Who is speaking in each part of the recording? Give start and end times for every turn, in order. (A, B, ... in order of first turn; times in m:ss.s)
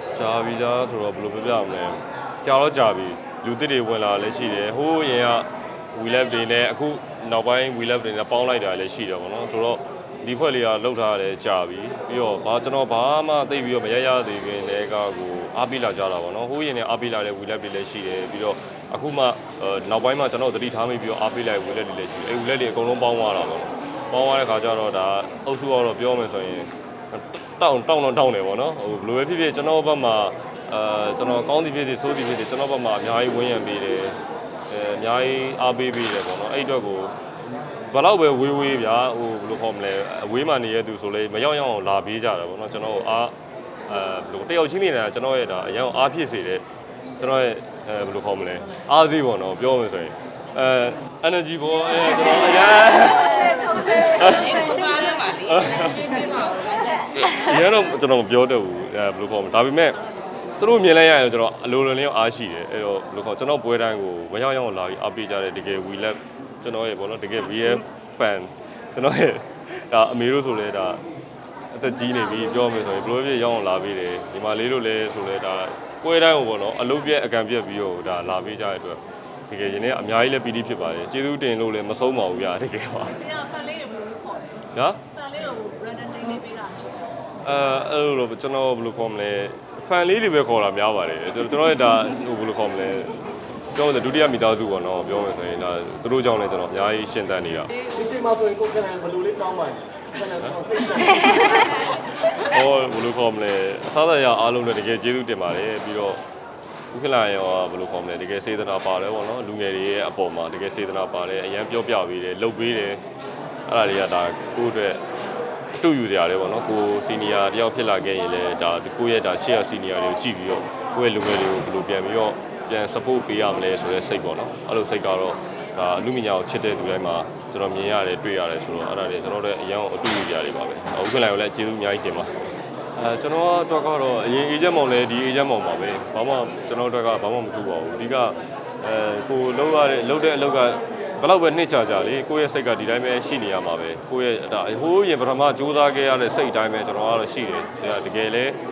0:00.2-0:34.2 A
0:34.7-0:37.1 A
0:37.9-0:43.3 A
0:43.9-0:46.6 A
0:47.2-1:00.0 A
0:54.5-0:55.1 B
1:00.6-1:11.0 A
1:11.7-1:23.4 A
1:23.4-1:24.5 B
1:24.7-1:25.0 A
1:25.2-1:27.0 B
1:27.4-1:33.2 A
1:33.7-1:37.7 A
1:37.9-1:41.5 C
1:40.2-1:40.6 A
1:42.3-1:46.2 A
1:46.9-1:53.0 A
1:53.7-1:55.0 A
1:55.8-2:12.3 A
2:13.0-2:28.6 A